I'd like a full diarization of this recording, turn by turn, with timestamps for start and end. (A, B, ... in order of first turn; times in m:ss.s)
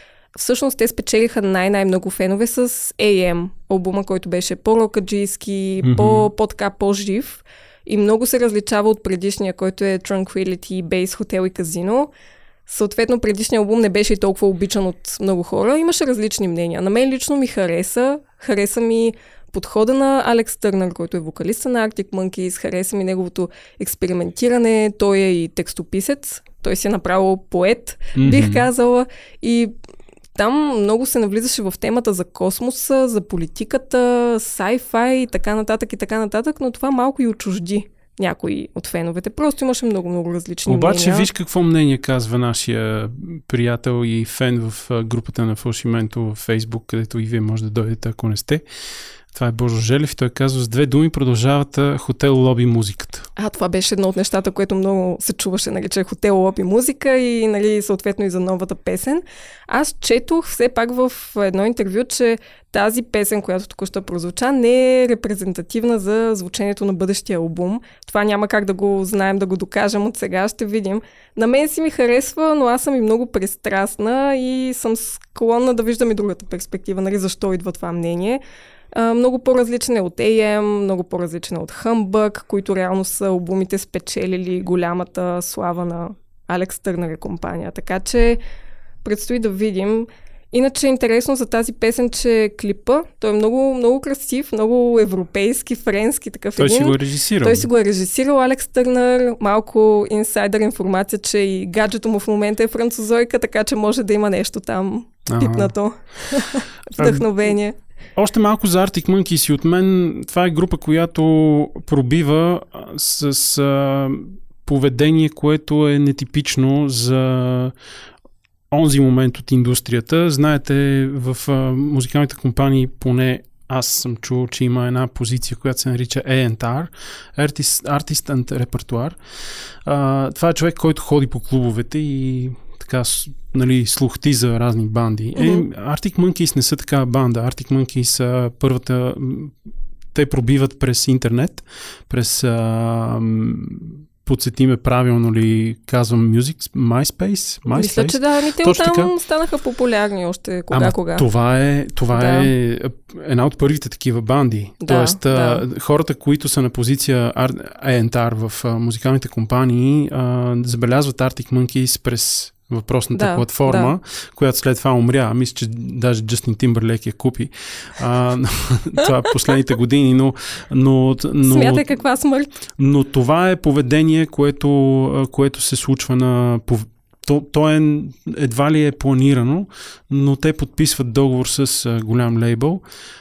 0:00.3-0:12.1 A
0:05.8-0:06.3 B
0:12.7-0:29.7 A
0:28.2-0:28.7 B
0:30.4-0:41.3 A
0:40.6-0:48.6 B
0:49.3-0:53.3 B
0:53.4-1:18.4 A
1:18.9-1:28.4 A
1:29.0-1:47.7 A
1:36.6-1:37.7 B
1:45.3-1:45.7 B
1:47.0-1:47.5 B
1:48.2-1:57.7 B
1:58.7-2:09.2 B
2:09.8-2:19.5 B
2:15.4-2:15.7 A
2:20.1-2:29.1 B
2:27.7-2:31.2 A
2:30.7-2:52.0 B
2:32.1-2:32.5 A
2:34.8-2:35.6 A
2:43.1-2:43.9 A
2:51.4-2:52.6 A
2:52.8-3:02.8 B